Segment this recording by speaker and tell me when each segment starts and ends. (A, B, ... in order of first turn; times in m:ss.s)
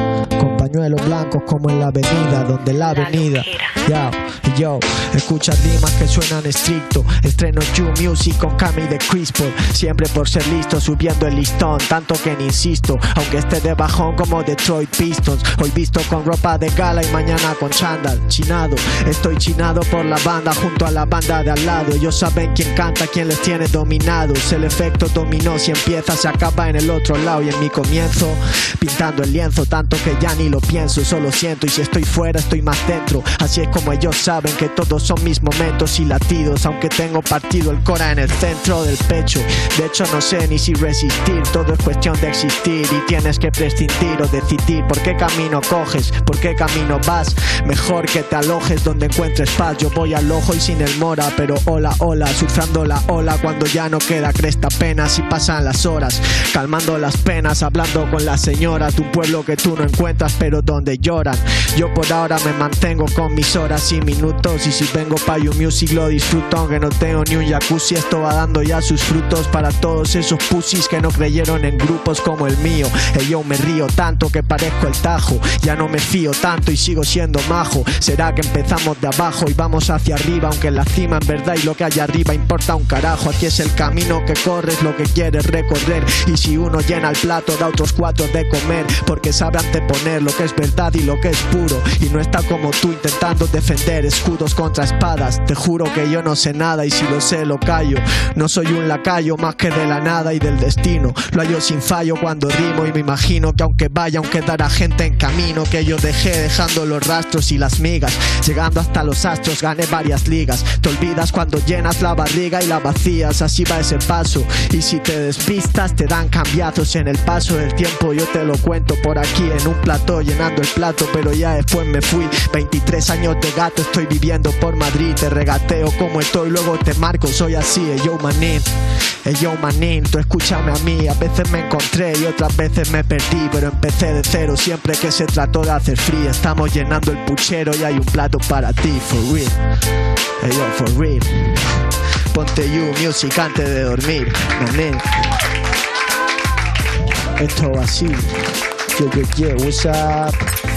0:00.4-2:08.7 A
2:09.2-2:19.6 A
2:20.4-2:21.6 A
2:22.3-2:25.0 A
2:27.4-2:28.3 A
2:29.0-2:30.3 A